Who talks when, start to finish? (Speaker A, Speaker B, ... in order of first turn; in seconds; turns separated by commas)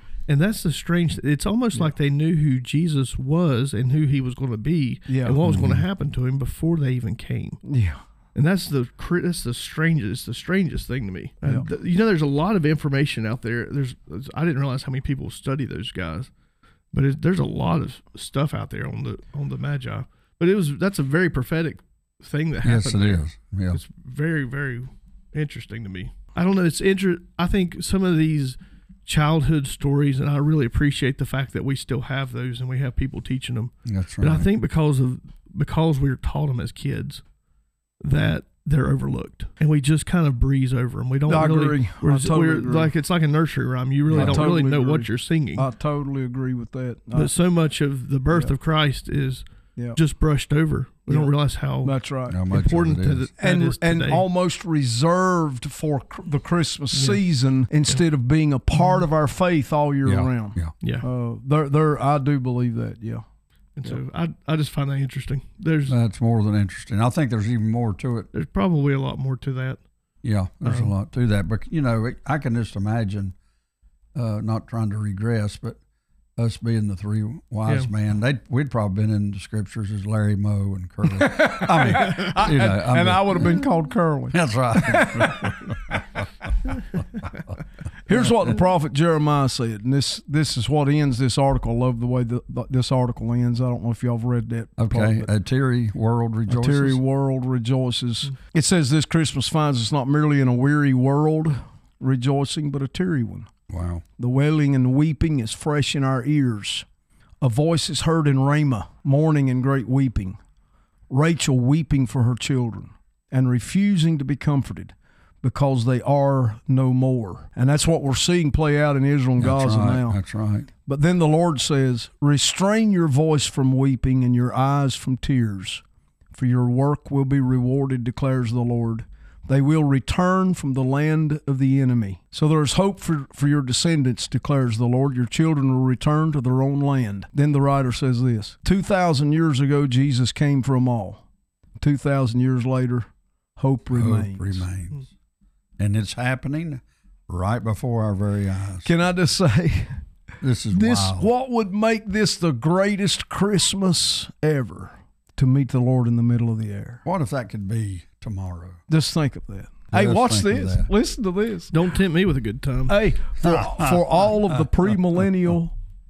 Speaker A: 0.3-7.6, Speaker B: 5.1-5.4, Speaker C: 5.4-5.8, Speaker B: 7.7-8.0, Speaker A: 8.3-16.3, Speaker A: 16.9-23.2, Speaker C: 22.6-23.8, Speaker A: 23.7-37.2, Speaker C: 33.9-34.5, Speaker A: 38.0-45.7, Speaker B: 41.3-42.9, Speaker B: 44.1-47.3, Speaker C: 44.1-44.5, Speaker A: 47.1-49.4, Speaker A: 49.9-52.0, Speaker B: 51.8-52.4, Speaker C: 52.3-53.3, Speaker A: 52.5-54.2, Speaker B: 53.4-63.2, Speaker A: 56.9-57.2, Speaker C: 60.0-60.7, Speaker A: 63.8-66.0, Speaker C: 65.9-68.3, Speaker A: 68.3-69.8, Speaker C: 70.2-73.3, Speaker A: 70.6-70.9, Speaker C: 74.1-75.8, Speaker C: 76.4-83.7, Speaker B: 81.1-85.7, Speaker C: 84.3-86.2, Speaker B: 88.0-95.3, Speaker C: 88.1-88.5, Speaker C: 94.8-97.0, Speaker B: 96.5-103.5, Speaker C: 103.7-104.0, Speaker B: 104.2-106.8, Speaker B: 107.4-110.4, Speaker B: 111.1-120.2, Speaker C: 119.4-120.7, Speaker B: 120.8-141.2, Speaker B: 141.8-144.6, Speaker C: 143.9-145.1, Speaker C: 145.8-148.9, Speaker B: 148.8-150.0, Speaker C: 150.4-151.3, Speaker B: 150.7-157.0, Speaker C: 157.1-158.8, Speaker B: 158.9-161.7, Speaker C: 159.9-160.9, Speaker A: 161.7-163.0, Speaker B: 162.9-165.7, Speaker C: 163.4-164.2